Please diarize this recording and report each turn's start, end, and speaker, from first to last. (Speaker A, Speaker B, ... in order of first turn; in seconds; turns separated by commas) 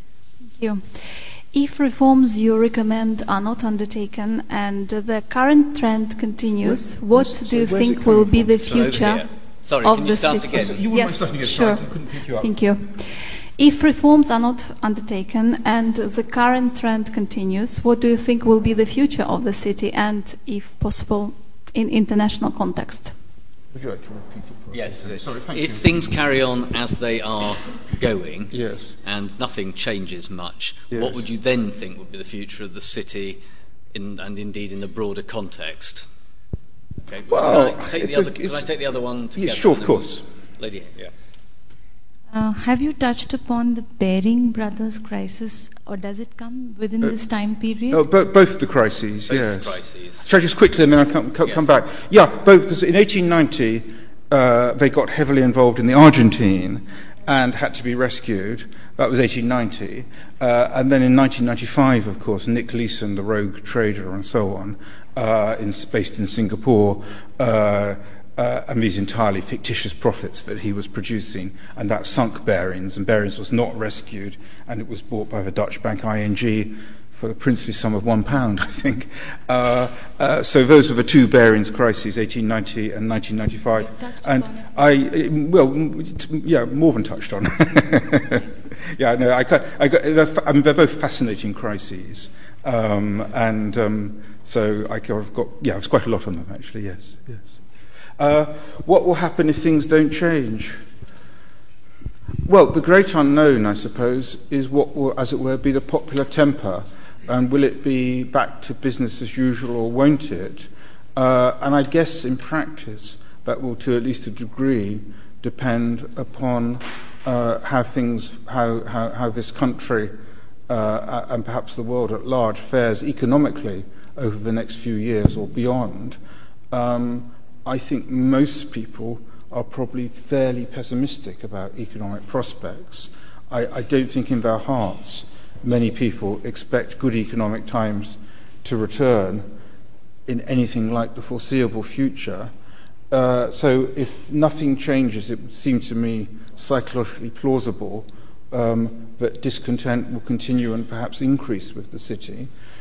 Speaker A: 0.6-9.2, Speaker B: 6.6-9.1, Speaker C: 8.7-10.8, Speaker A: 9.8-23.1, Speaker B: 10.4-12.5, Speaker B: 23.7-26.1, Speaker C: 24.7-33.4, Speaker B: 28.5-28.9, Speaker B: 30.9-31.2, Speaker C: 33.9-36.1, Speaker C: 37.1-41.1, Speaker B: 37.3-38.7, Speaker B: 39.3-40.2, Speaker D: 42.3-48.0, Speaker B: 47.9-97.6, Speaker C: 49.3-50.3, Speaker D: 83.8-84.7, Speaker B: 98.2-100.8, Speaker B: 102.5-120.2, Speaker B: 120.7-126.2, Speaker B: 126.7-139.5, Speaker B: 140.3-142.5, Speaker B: 143.1-152.5